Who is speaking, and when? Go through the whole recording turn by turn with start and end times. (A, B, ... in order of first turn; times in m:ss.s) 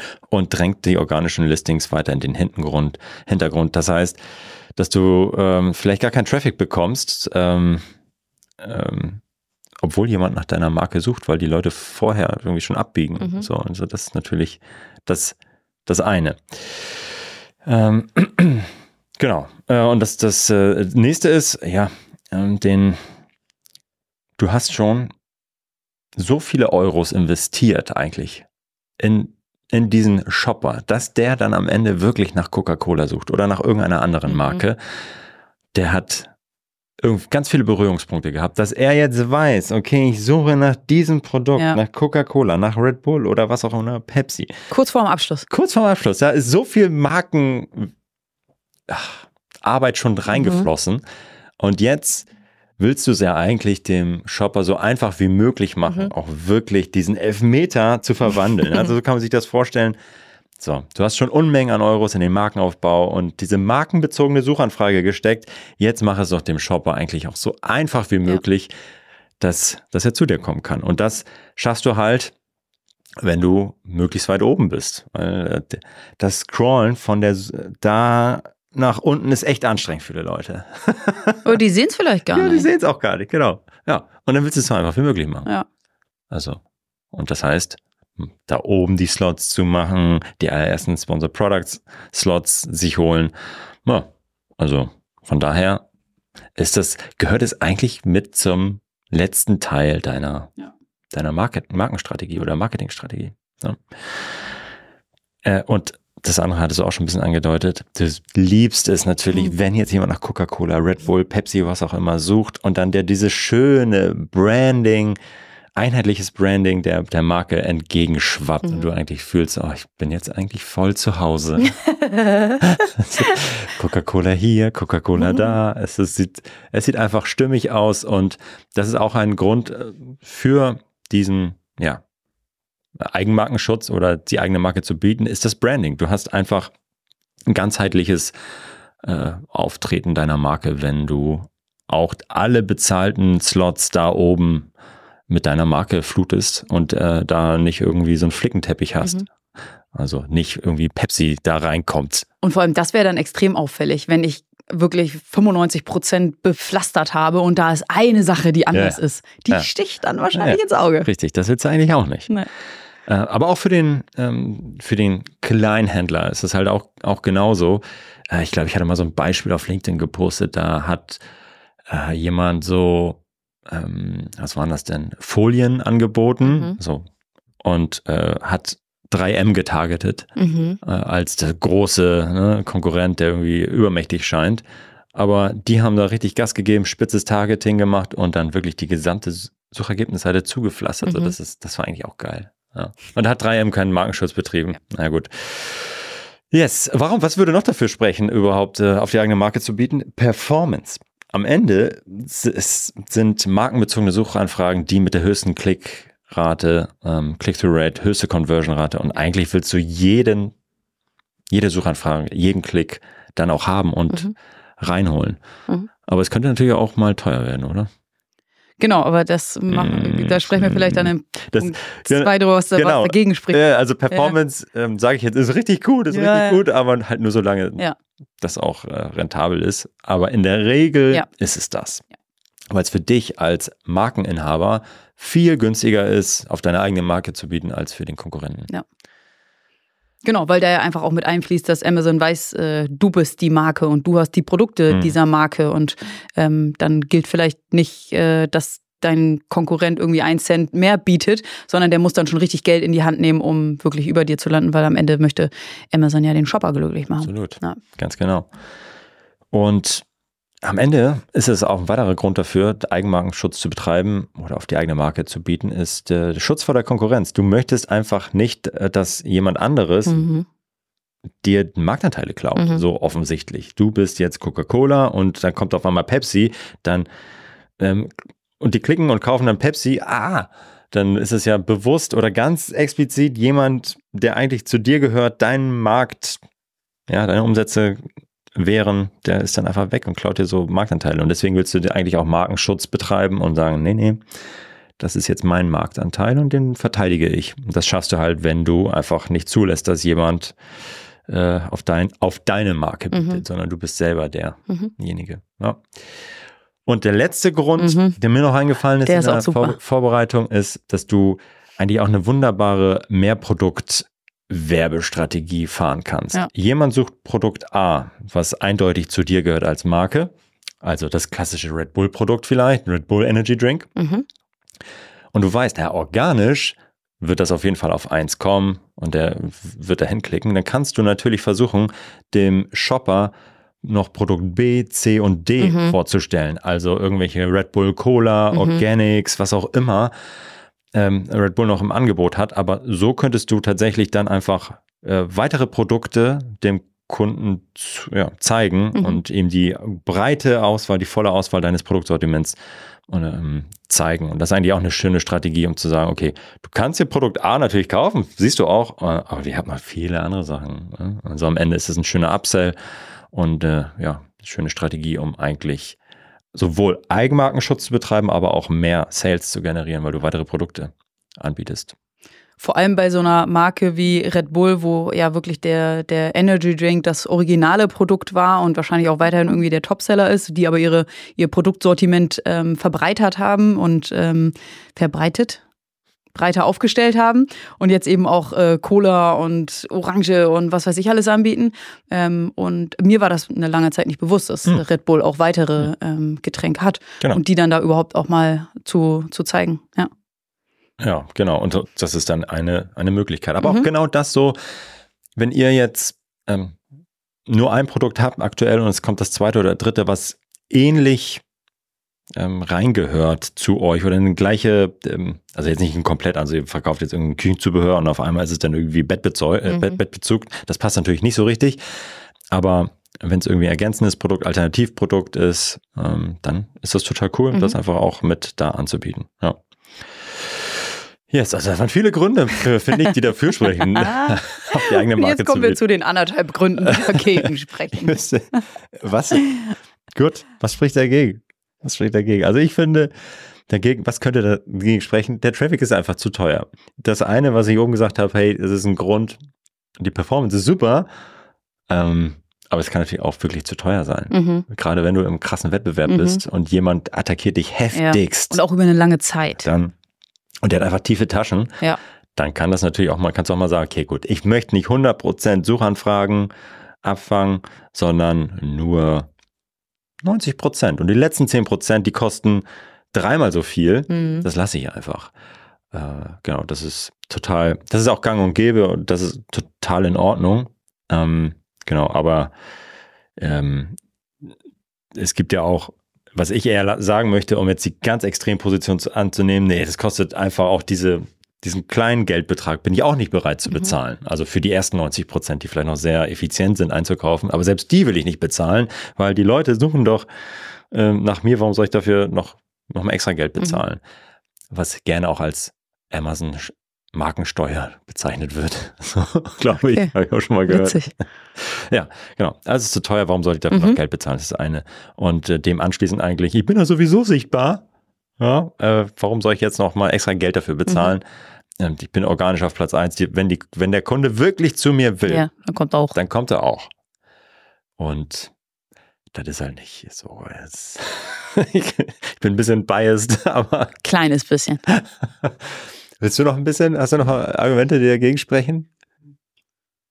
0:00.3-0:04.2 A
0:04.8-0:07.8 A
0:08.6-0:09.2 A
0:09.8-0:17.1 A
0:17.6-0:23.0 A
0:24.4-0:25.1 A
0:26.2-0:28.4 A
0:29.0-0:34.8 A
0:34.3-0:34.6 B
0:35.7-0:36.3 A
0:37.0-0:44.6 A
0:44.7-0:45.5 B
0:45.5-0:47.9 A
0:48.9-0:51.0 A
0:50.3-0:50.7 B
0:51.6-0:52.3 A
0:52.8-1:00.0 A
0:55.9-0:56.1 B
1:00.6-1:08.7 A
1:09.4-1:12.3 A
1:13.2-1:21.5 A
1:21.4-1:22.7 B
1:22.3-1:25.5 A
1:26.3-1:26.6 A
1:27.1-1:33.3 A
1:33.8-1:35.8 A
1:36.6-1:40.5 A
1:41.1-1:44.3 A
1:45.4-1:55.2 A
1:55.8-2:01.8 A
2:01.7-2:02.6 B
2:02.6-2:12.0 A
2:05.2-2:05.6 B
2:13.0-2:16.7 A
2:17.5-2:18.3 A
2:19.0-2:24.7 A
2:25.3-2:29.3 A
2:29.9-2:32.3 A
2:32.4-2:41.1 B
2:38.7-2:39.7 A
2:40.3-2:42.3 A
2:43.1-2:51.2 A
2:51.9-2:57.1 A
2:56.4-2:56.8 B
2:57.6-3:00.3 A
3:00.4-3:00.8 B
3:00.8-3:30.5 A
3:11.1-3:11.3 B
3:31.5-3:35.4 A
3:36.1-3:37.9 A
3:38.8-3:44.3 B
3:39.7-3:47.8 A
3:46.1-3:46.6 B
3:48.4-3:52.0 A
3:52.7-3:58.7 A
4:00.2-4:17.8 B
4:04.9-4:05.2 A
4:17.2-4:18.5 A
4:19.5-4:20.0 A
4:20.6-4:30.2 A
4:30.1-4:30.4 B
4:31.4-4:37.1 A
4:32.6-4:32.8 B
4:37.8-4:46.4 A
4:47.1-4:48.0 A
4:48.6-4:54.2 A
4:55.0-5:00.6 A
5:01.3-5:05.9 A
5:03.1-5:03.4 B
5:06.9-5:20.3 A
5:07.8-5:08.2 B
5:09.0-5:09.8 B
5:20.8-5:23.9 A
5:24.0-5:24.2 B
5:25.3-5:40.1 A
5:35.6-5:36.0 B
5:38.5-5:38.8 B
5:40.9-5:52.6 A
5:49.0-5:49.2 B
5:53.1-6:02.8 A
6:03.3-6:06.0 A
6:06.5-6:12.0 A
6:12.6-6:25.6 B
6:26.3-6:40.1 B
6:41.0-6:44.6 A
6:43.6-6:43.9 B
6:45.4-6:46.8 A
6:47.5-6:51.4 A
6:52.4-7:01.8 A
6:59.7-7:00.0 B
7:02.5-7:09.6 A
7:11.3-7:15.8 A
7:14.0-7:18.2 B
7:16.8-7:19.5 A
7:20.1-7:23.1 A
7:23.7-7:29.4 A
7:30.0-7:31.1 A
7:31.9-7:38.6 A
7:34.3-7:34.6 B
7:36.1-7:36.4 B
7:37.9-7:39.6 B
7:39.6-7:39.9 A
7:40.6-7:41.8 A
7:42.4-7:46.5 A
7:47.0-7:49.3 A
7:50.2-7:55.3 A
7:54.1-7:54.5 B
7:55.9-8:02.5 A
8:03.4-8:04.0 A
8:05.2-8:20.3 A
8:20.9-8:24.0 A
8:24.7-8:37.8 A
8:29.8-8:30.1 B
8:30.7-8:31.1 B
8:33.7-8:34.0 B
8:38.4-8:41.2 A
8:40.9-8:41.1 B
8:41.8-8:45.4 A
8:45.3-8:46.2 B
8:46.1-8:46.9 A
8:48.0-8:48.5 A
8:49.3-8:54.0 A
8:54.0-8:54.8 B
8:54.9-8:58.9 A